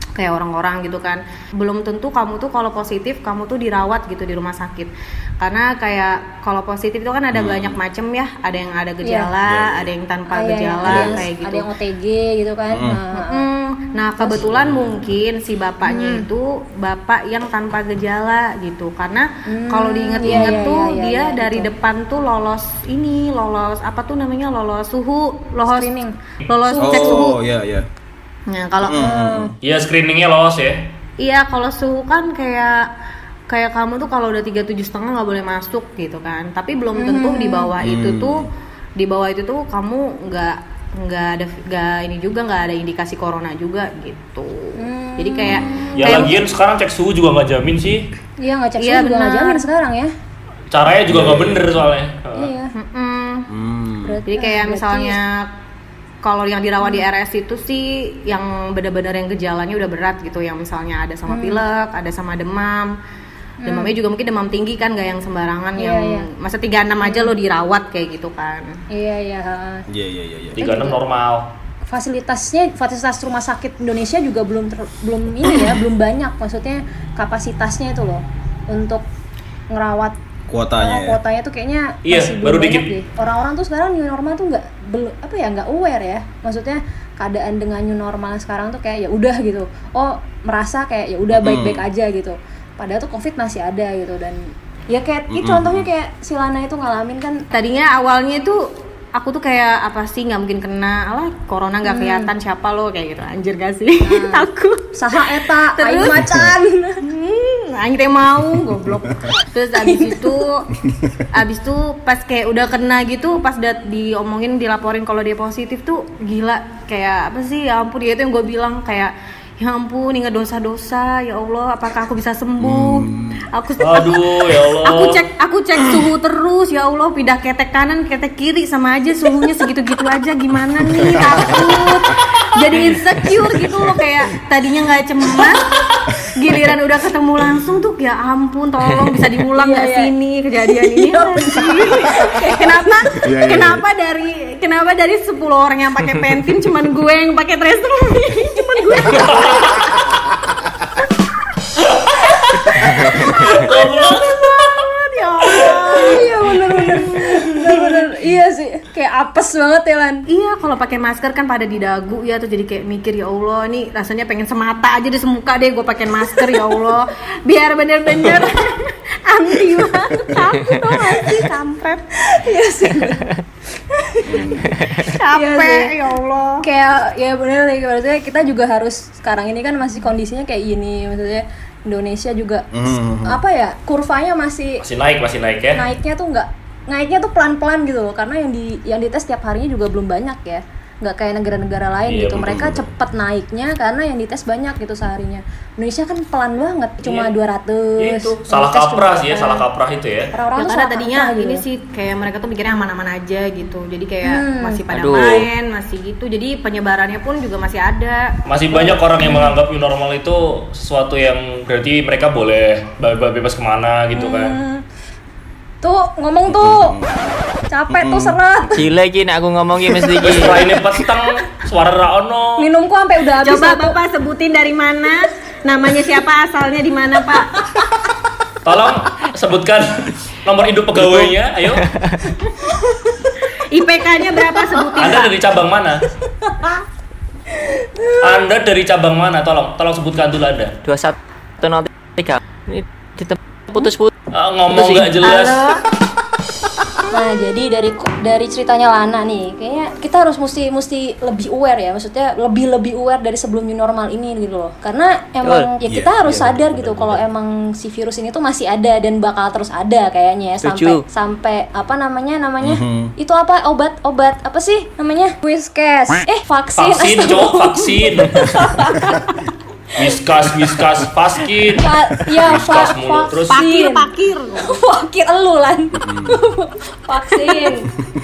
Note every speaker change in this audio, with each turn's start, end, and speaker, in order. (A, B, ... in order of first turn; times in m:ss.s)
0:00.2-0:11.6 A
0:07.3-0:07.8 B
0:09.0-0:09.3 C
0:09.5-0:09.9 B
0:10.3-0:13.4 C
0:10.8-0:11.2 B
0:12.7-0:13.0 B
0:13.1-0:27.4 A
0:14.2-0:14.4 C
0:15.8-0:16.3 C
0:19.5-0:21.7 C
0:20.2-0:20.7 B
0:25.7-0:26.1 C
0:26.7-0:27.4 C
0:26.8-0:27.8 B
0:28.5-0:29.1 A
0:28.8-0:29.5 B
0:29.0-0:29.5 C
0:29.6-0:30.8 D
0:31.2-0:32.9 A
0:33.5-0:46.4 A
0:36.9-0:37.7 C
0:37.8-0:38.5 B
0:44.8-0:46.4 C
0:45.4-0:46.1 B
0:46.0-0:48.1 D
0:48.4-0:50.1 C
0:48.8-0:49.6 A
0:50.7-0:52.5 D
0:51.1-0:51.9 B
0:52.3-0:52.7 C
0:52.7-0:53.5 A
0:53.5-0:54.2 B
0:54.0-0:55.2 C
0:54.3-0:55.5 A
0:56.2-1:02.9 A
1:01.3-1:01.6 C
1:03.6-1:03.9 C
1:03.6-1:08.8 A
1:05.8-1:06.3 C
1:07.0-1:07.3 C
1:08.9-1:09.8 C
1:09.9-1:10.6 B
1:10.5-1:11.5 D
1:10.6-1:11.0 C
1:11.9-1:19.0 C
1:19.7-1:20.1 C
1:20.5-1:21.2 B
1:20.8-1:37.4 C
1:22.0-1:22.9 D
1:31.3-1:31.8 B
1:35.3-1:35.9 B
1:37.5-1:38.6 A
1:39.2-1:44.9 A
1:41.8-1:42.3 C
1:44.0-1:47.0 C
1:45.8-1:46.4 A
1:46.1-1:46.5 B
1:47.0-1:50.7 A
1:49.8-1:50.3 C
1:50.9-1:51.2 B
1:51.3-2:30.1 A
2:02.6-2:03.4 B
2:03.8-2:05.2 D
2:10.9-2:11.6 B
2:11.4-2:11.9 C
2:19.6-2:20.1 C
2:20.6-2:23.2 C
2:23.2-2:23.8 B
2:28.7-2:29.3 C
2:29.2-2:29.8 D
2:31.8-2:34.8 D
2:32.8-2:33.6 B
2:33.7-2:36.3 A
2:35.5-2:35.9 D
2:35.9-2:40.2 C
2:40.3-2:52.0 A
2:52.2-2:53.3 C
2:53.9-2:54.5 C
2:54.2-2:54.7 B
2:54.7-2:55.1 E
2:55.0-2:55.9 C
2:55.0-2:56.6 A
2:56.6-3:02.7 C
3:02.7-3:03.4 B
3:03.2-3:04.8 C
3:04.8-3:05.8 D
3:05.8-3:19.6 C
3:12.1-3:12.7 D
3:12.4-3:12.8 B
3:17.0-3:17.3 D
3:18.0-3:20.3 D
3:20.3-3:21.6 C
3:20.6-3:28.3 A
3:24.2-3:24.8 C
3:24.9-3:25.5 E
3:28.4-3:34.6 D
3:28.7-3:29.5 C
3:34.2-3:34.8 C
3:35.8-3:36.9 C
3:36.5-3:38.9 B
3:37.7-3:38.7 C
3:38.7-3:40.7 E
3:40.0-3:41.0 B
3:40.2-3:42.7 D
3:42.6-3:44.0 C
3:43.4-3:47.5 A
3:47.3-3:47.8 C
3:48.6-3:51.8 D
3:51.0-3:52.2 E
3:53.7-3:55.3 A
3:54.4-3:54.8 C
3:55.0-3:56.0 D
3:56.4-3:56.8 C
3:57.5-3:58.4 C
3:58.2-4:00.7 D
4:00.8-4:04.1 E
4:04.3-4:05.7 D
4:04.7-4:05.2 E
4:05.2-4:05.8 A
4:07.1-4:29.3 C
4:15.4-4:15.7 E
4:15.8-4:17.2 B
4:20.6-4:21.0 E
4:22.6-4:23.1 B
4:26.8-4:28.4 D
4:30.0-4:31.9 D
4:31.8-4:34.1 C
4:32.4-4:33.6 D
4:33.5-4:34.8 A
4:34.6-4:37.9 C
4:35.9-4:36.4 B